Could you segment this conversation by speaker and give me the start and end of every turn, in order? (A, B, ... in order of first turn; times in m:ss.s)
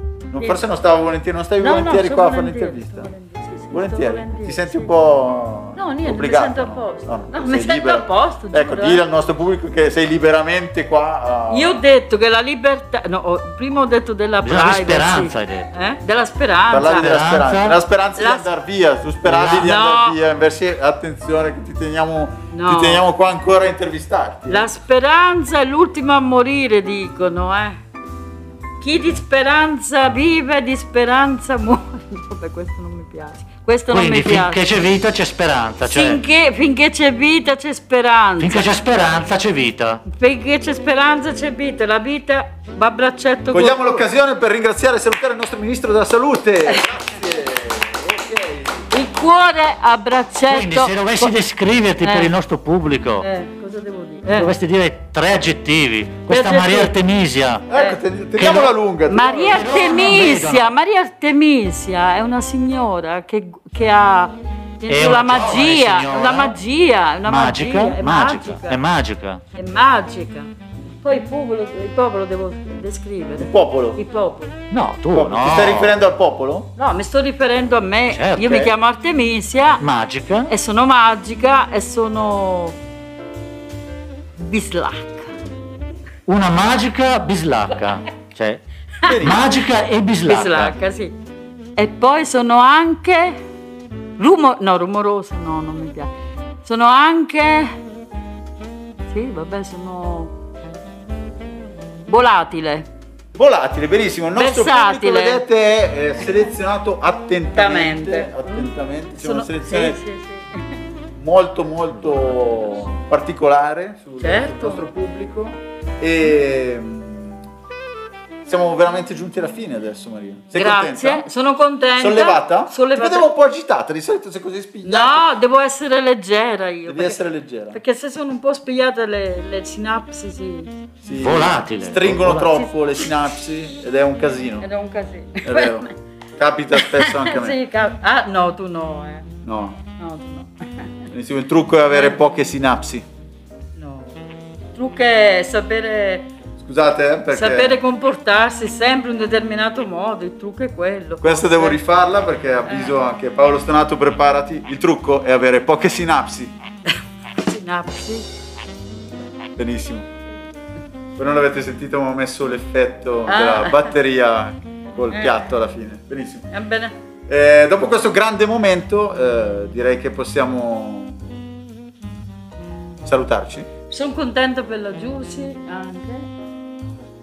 0:00.3-0:03.1 A
0:00.4-0:00.6 B
0:01.6-0:04.9 B
0:03.7-0:11.8 A
0:05.7-0:09.0 B
0:11.5-0:17.1 B
0:14.4-0:15.7 C
0:16.7-0:24.7 A
0:16.8-0:17.8 C
0:18.2-0:18.5 B
0:19.2-0:19.7 C
0:19.6-0:20.2 B
0:22.5-0:23.0 B
0:24.5-0:27.8 B
0:28.8-0:34.6 B
0:33.9-0:36.2 C
0:35.8-0:38.8 B
0:38.4-0:40.0 C
0:40.0-0:44.0 B
0:43.5-0:48.9 A
0:48.9-0:51.3 B
0:50.5-0:53.2 C
0:52.0-0:52.3 B
0:53.2-0:54.5 B
0:54.3-0:57.7 C
0:56.3-0:57.0 B
0:57.7-0:59.7 A
0:57.7-0:58.0 B
0:58.4-0:58.7 C
0:59.1-1:08.8 B
0:59.5-1:00.7 C
1:04.9-1:06.6 C
1:07.2-1:09.4 C
1:09.5-1:14.6 B
1:13.4-1:14.0 A
1:14.7-1:16.0 C
1:15.1-1:16.7 A
1:16.8-1:19.8 B
1:18.1-1:18.6 C
1:18.4-1:18.7 A
1:19.8-1:20.5 C
1:20.5-1:22.8 B
1:24.4-1:25.4 B
1:26.3-1:28.6 C
1:29.0-1:29.4 A
1:29.0-1:29.3 B
1:29.2-1:30.7 C
1:30.2-1:31.1 B
1:31.8-1:33.3 B
1:34.2-1:36.1 B
1:36.6-1:37.7 B
1:39.1-1:40.3 B
1:42.1-1:42.9 B
1:43.3-1:50.0 A
1:44.3-1:45.4 B
1:47.5-1:50.8 B
1:51.2-1:57.4 A
1:52.0-1:52.8 C
1:54.2-1:54.8 B
1:58.4-2:01.2 A
2:00.5-2:03.3 B
2:02.0-2:05.3 A
2:04.8-2:07.2 B
2:06.9-2:07.8 A
2:07.7-2:10.7 B
2:11.0-2:14.7 A
2:11.2-2:12.7 C
2:14.6-2:15.9 B
2:15.4-2:15.9 A
2:16.4-2:17.6 A
2:16.7-2:19.3 B
2:19.4-2:19.8 A
2:20.0-2:20.9 B
2:21.1-2:23.0 A
2:21.8-2:22.6 B
2:23.7-2:26.3 B
2:26.6-2:27.8 A
2:27.3-2:31.8 B
2:31.2-2:36.5 A
2:32.6-2:33.0 B
2:37.4-2:38.3 B
2:39.6-2:40.0 A
2:41.2-2:46.4 A
2:43.3-2:44.0 B
2:45.1-2:45.5 B
2:46.5-2:47.0 B
2:47.3-2:51.2 A
2:53.0-2:53.7 A
2:53.9-2:56.3 B